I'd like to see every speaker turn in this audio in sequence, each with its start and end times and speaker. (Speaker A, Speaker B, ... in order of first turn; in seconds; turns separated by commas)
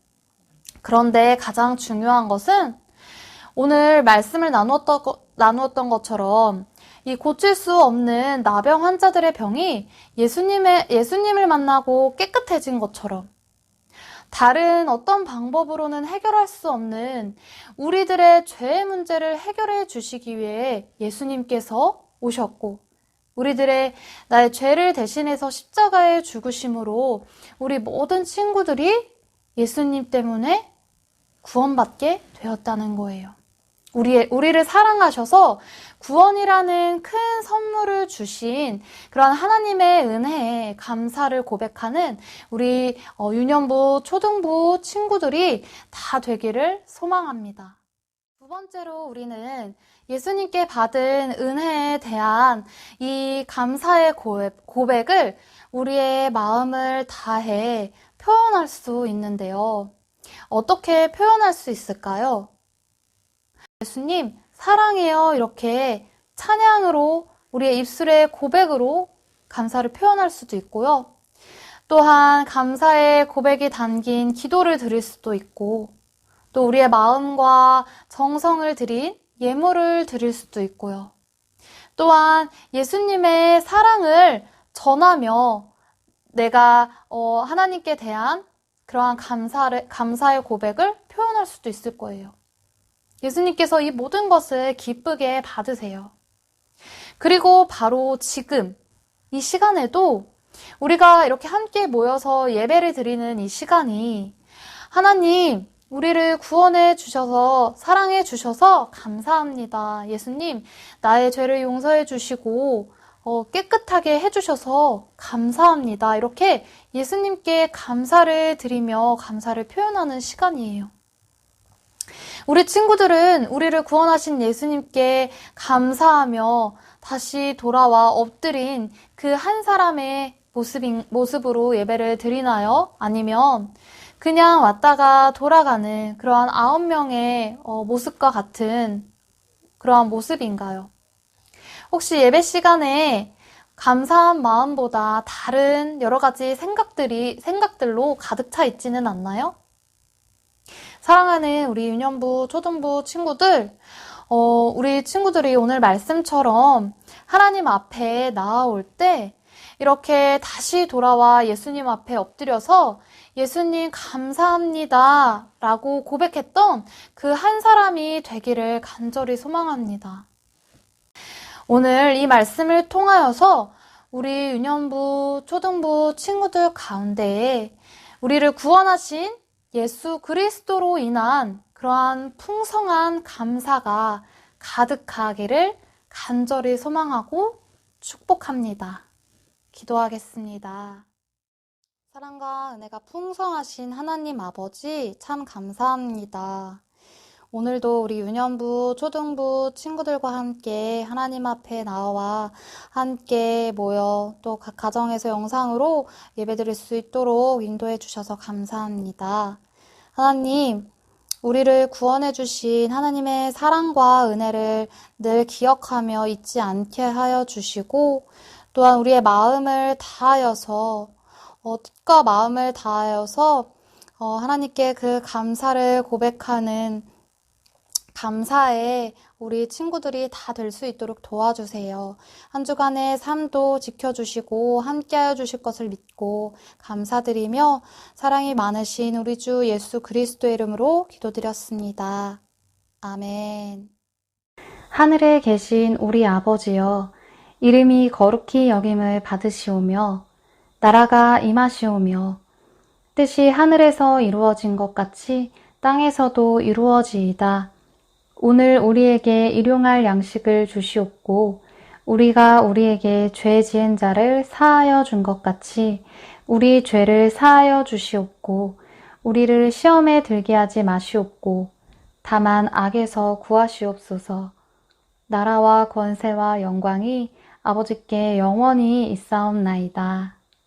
Speaker A: 0.8-2.8, Speaker A: 3.5-13.3, Speaker A: 14.3-22.8, Speaker A: 23.4-30.7, Speaker A: 31.4-33.4, Speaker A: 33.9-47.8, Speaker A: 48.4-59.9, Speaker A: 60.5-62.5, Speaker A: 63.8-71.1, Speaker A: 71.9-75.9, Speaker A: 76.5-81.1, Speaker A: 82.0-85.7, Speaker A: 86.3-92.3, Speaker A: 93.2-96.1, Speaker A: 97.2-98.8, Speaker A: 99.3-104.4, Speaker A: 104.9-120.9, Speaker A: 122.5-139.1, Speaker A: 139.8-140.9, Speaker A: 141.9-149.6, Speaker A: 151.0-170.3, Speaker A: 171.7-189.1, Speaker A: 189.7-191.1, Speaker A: 192.1-196.8, Speaker A: 197.5-209.6, Speaker A: 210.2-210.9, Speaker A: 211.4-227.1, Speaker A: 228.1-242.4, Speaker A: 243.0-243.9, Speaker A: 244.9-250.3, Speaker A: 250.8-252.4, Speaker A: 253.2-257.7, Speaker A: 258.4-274.6, Speaker A: 275.3-280.4